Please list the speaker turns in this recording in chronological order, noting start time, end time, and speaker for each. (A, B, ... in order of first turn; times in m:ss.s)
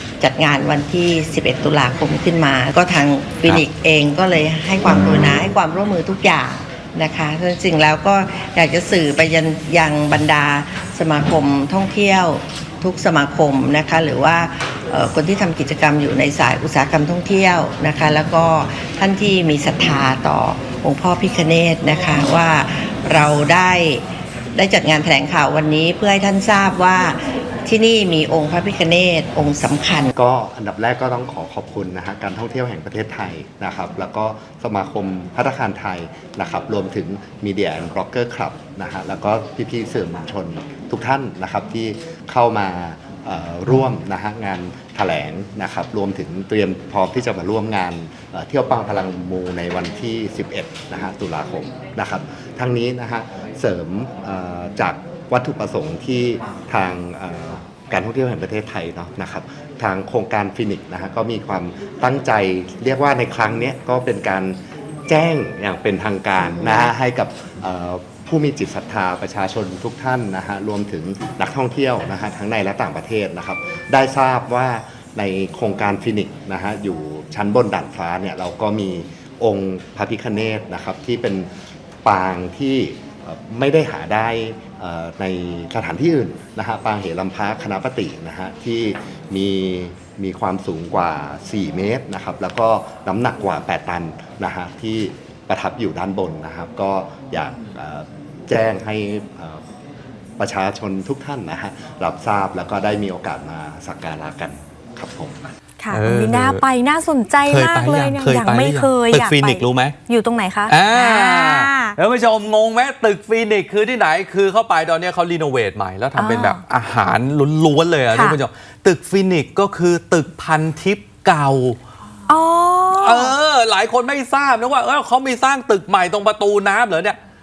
0:00.2-0:30.1 A
0:30.1-1:21.5 B
1:22.0-1:39.6 B
1:40.4-1:45.4 B
1:45.8-1:52.0 C
1:45.9-1:46.6 D
1:47.4-1:50.0 D
1:50.7-2:01.8 D
1:56.2-1:56.6 C
1:58.1-1:58.4 C
2:02.3-2:03.3 C
2:02.9-2:07.2 D